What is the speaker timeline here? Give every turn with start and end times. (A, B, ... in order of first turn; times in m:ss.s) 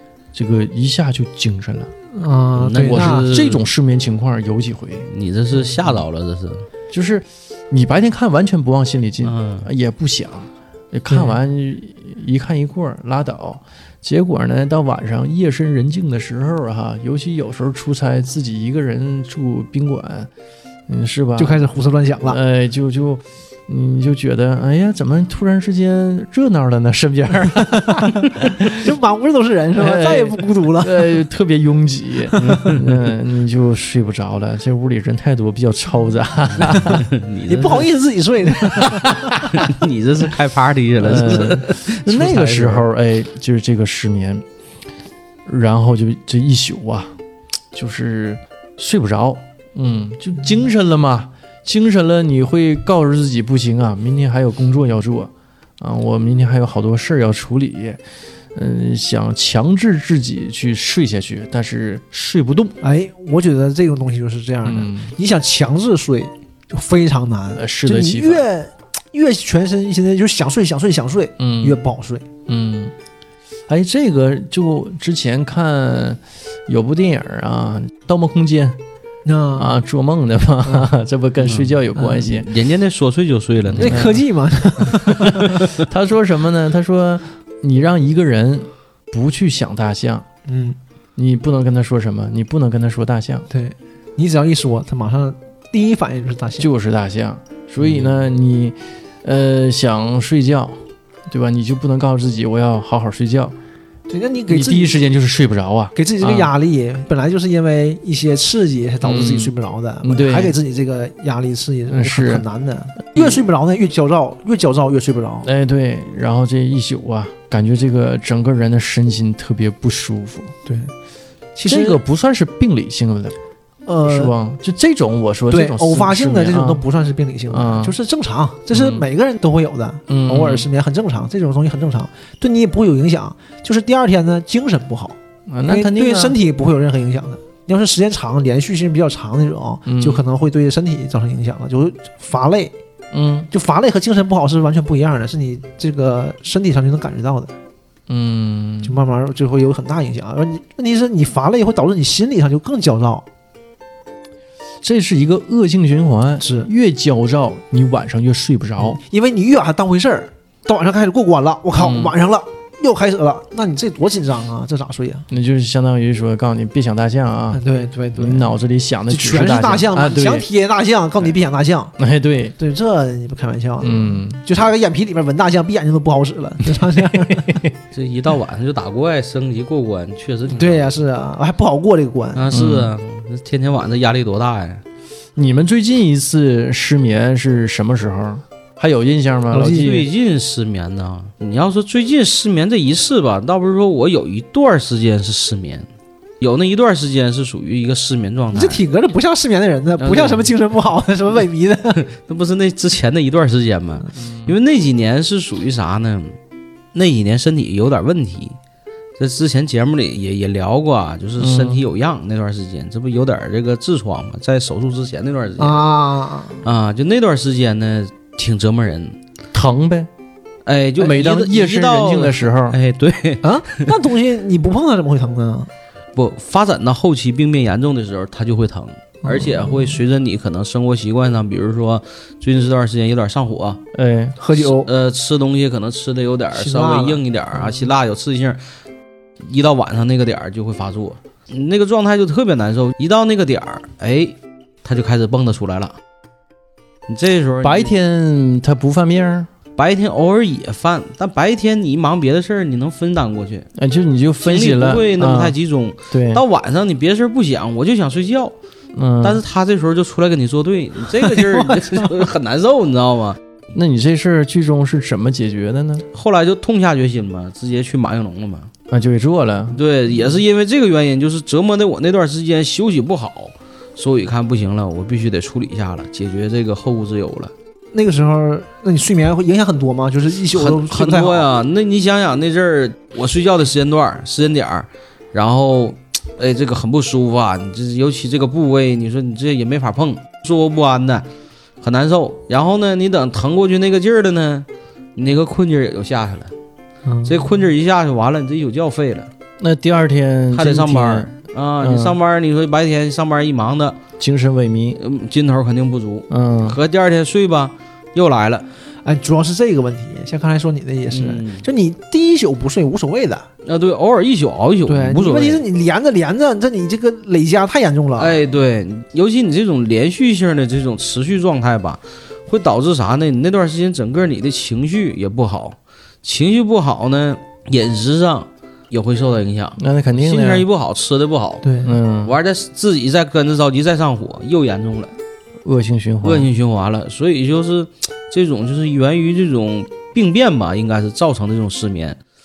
0:00.3-0:01.9 A
0:02.1-0:03.3 B
0:02.6-0:03.6 C
0:02.8-0:05.1 A
0:05.1-0:06.6 C
0:06.9-0:20.3 A
0:09.2-0:09.7 C
0:11.1-0:11.4 B
0:20.9-0:21.6 A
0:21.4-0:22.4 B
0:22.3-0:28.8 A
0:27.9-0:31.1 B
0:29.8-0:37.0 A
0:32.4-0:32.9 C
0:32.4-0:32.8 B
0:36.7-0:37.9 C
0:37.5-0:39.8 B
0:39.0-0:39.4 A
0:39.4-0:42.9 C
0:41.0-0:44.4 A
0:45.5-0:47.1 A
0:47.7-0:58.0 A
0:58.6-1:02.8 A
1:02.8-1:12.2 B
1:04.6-1:05.1 A
1:07.6-1:08.5 A
1:11.4-1:11.8 A
1:12.5-1:12.9 A
1:13.7-1:18.8 A
1:19.2-1:19.8 B
1:19.6-1:22.5 A
1:22.0-1:22.2 B
1:22.2-1:24.1 C
1:23.7-1:24.2 A
1:23.8-1:25.7 B
1:24.8-1:30.2 A
1:30.5-1:30.8 B
1:31.2-1:33.5 A
1:33.5-1:36.7 B
1:36.6-1:43.6 A
1:44.1-1:45.0 B
1:44.5-1:46.5 A
1:46.0-1:55.5 B
1:49.0-1:49.5 A
1:50.0-1:50.6 A
1:51.9-1:52.4 A
1:55.4-2:00.5 A
2:00.7-2:00.9 B
2:01.6-2:02.0 B
2:01.6-2:03.4 A
2:03.9-2:04.3 B
2:04.0-2:06.8 A
2:05.5-2:15.2 B
2:07.5-2:08.0 A
2:08.8-2:09.0 A
2:10.1-2:10.7 A
2:15.5-2:16.4 A
2:15.7-2:22.7 B
2:19.9-2:20.2 A
2:23.1-2:23.5 A
2:23.5-2:27.5 B
2:28.1-2:29.0 A
2:28.8-2:33.2 B
2:34.8-2:39.0 A
2:36.4-2:36.7 B
2:38.8-2:45.3 B
2:41.8-2:42.1 A
2:45.3-2:47.6 A
2:47.5-2:48.5 B
2:48.2-2:50.5 A
2:49.1-2:51.9 B
2:52.0-2:52.6 A
2:52.6-2:57.6 B
2:53.8-2:54.4 A
2:56.7-2:57.7 A
2:57.9-3:00.9 C
3:00.5-3:02.5 B
3:02.4-3:04.8 C
3:02.5-3:02.9 A
3:05.4-3:10.0 A
3:09.5-3:10.1 B
3:09.7-3:15.9 C
3:16.4-3:18.8 C
3:18.5-3:22.0 B
3:20.0-3:20.5 C
3:22.0-3:26.4 C
3:24.2-3:24.6 A
3:26.9-3:28.6 C
3:29.2-3:35.8 C
3:31.4-3:31.8 A
3:35.6-3:36.6 B
3:36.6-3:39.2 C
3:39.5-3:40.1 A
3:40.6-3:43.9 C
3:41.0-3:42.8 A
3:43.4-3:45.7 B
3:46.2-3:53.8 C
3:49.2-3:50.0 B
3:53.9-3:54.4 A
3:54.4-3:54.9 B
3:54.6-3:58.6 C
3:56.5-3:57.2 B
3:59.4-4:06.0 C
4:07.1-4:07.9 C
4:07.6-4:09.5 A
4:09.8-4:13.7 C
4:13.8-4:15.6 A
4:14.4-4:18.6 C
4:16.1-4:16.4 A
4:19.0-4:19.4 A
4:19.2-4:23.4 C
4:21.2-4:22.2 B
4:23.7-4:26.1 A
4:26.1-4:28.7 C
4:28.9-4:29.8 A
4:29.7-4:37.5 C
4:37.9-4:41.5 B
4:40.5-4:51.3 C
4:51.8-4:56.5 C
4:57.1-4:57.5 B
4:57.2-4:59.3 C
4:59.6-5:01.3 A
5:00.5-5:04.0 C
5:01.8-5:02.2 A
5:04.2-5:05.0 A
5:05.0-5:08.7 C
5:06.3-5:06.8 A
5:09.0-5:13.5 B
5:11.1-5:11.7 C
5:13.6-5:15.6 C
5:14.9-5:18.4 B
5:18.2-5:31.6 C
5:29.8-5:30.7 A
5:31.6-5:31.9 B
5:31.8-5:32.4 A
5:32.2-5:35.2 C
5:35.6-5:36.5 A
5:36.2-5:42.2 C